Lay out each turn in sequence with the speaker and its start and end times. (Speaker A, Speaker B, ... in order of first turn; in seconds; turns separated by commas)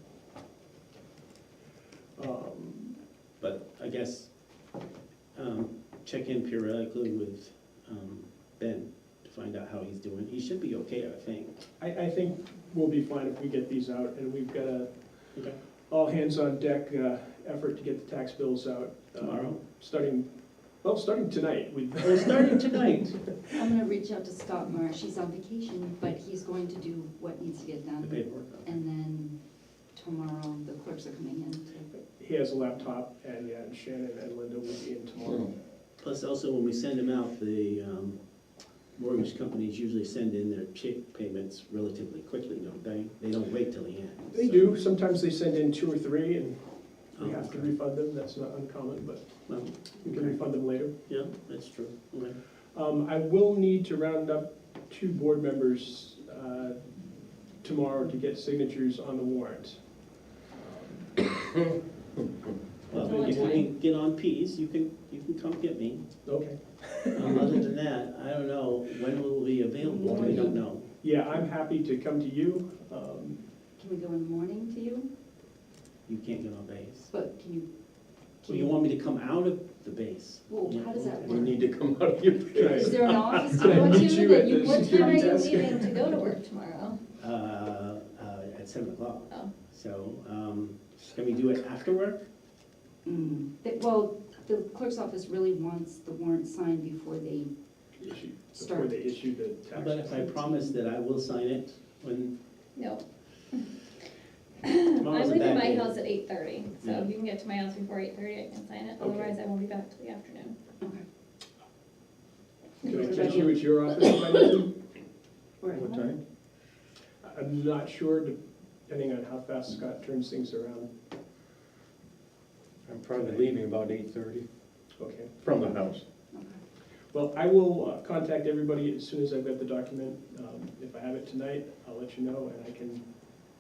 Speaker A: 2.2-3.0, Speaker B: 3.4-4.3, Speaker B: 5.3-11.6, Speaker A: 11.8-15.4, Speaker A: 15.9-22.9, Speaker B: 19.2-19.6, Speaker B: 22.0-23.4, Speaker C: 23.5-29.4, Speaker B: 28.0-28.7, Speaker C: 29.9-31.9, Speaker A: 31.9-35.6, Speaker B: 36.0-38.2, Speaker B: 39.0-44.7, Speaker A: 44.3-49.4, Speaker B: 47.1-47.7, Speaker B: 49.5-50.4, Speaker A: 50.0-51.0, Speaker B: 51.1-52.4, Speaker A: 52.7-56.9, Speaker A: 57.6-59.9, Speaker A: 60.5-61.1, Speaker B: 62.9-66.1, Speaker C: 63.0-63.4, Speaker D: 63.0-63.6, Speaker A: 63.2-63.6, Speaker A: 66.2-67.5, Speaker B: 67.1-70.9, Speaker C: 69.8-70.6, Speaker A: 71.0-73.4, Speaker C: 73.8-75.1, Speaker B: 76.1-77.1, Speaker C: 77.1-77.7, Speaker C: 78.4-78.7, Speaker B: 78.5-81.5, Speaker C: 80.5-81.5, Speaker E: 81.2-83.4, Speaker C: 82.5-85.5, Speaker A: 82.5-86.3, Speaker D: 84.1-87.0, Speaker B: 87.2-92.2, Speaker C: 93.0-97.5, Speaker A: 98.0-100.4, Speaker C: 98.5-99.2, Speaker B: 99.7-102.3, Speaker C: 100.4-100.7, Speaker D: 102.8-103.7, Speaker D: 104.7-110.5, Speaker B: 105.0-106.0, Speaker B: 106.8-107.1, Speaker A: 109.0-109.4, Speaker A: 112.8-114.7, Speaker D: 112.9-113.4, Speaker C: 112.9-113.7, Speaker C: 115.6-116.1, Speaker E: 115.7-116.2, Speaker A: 117.2-120.9, Speaker E: 122.9-124.5, Speaker A: 125.0-125.3, Speaker E: 125.4-126.0, Speaker C: 126.3-126.6, Speaker A: 127.1-133.0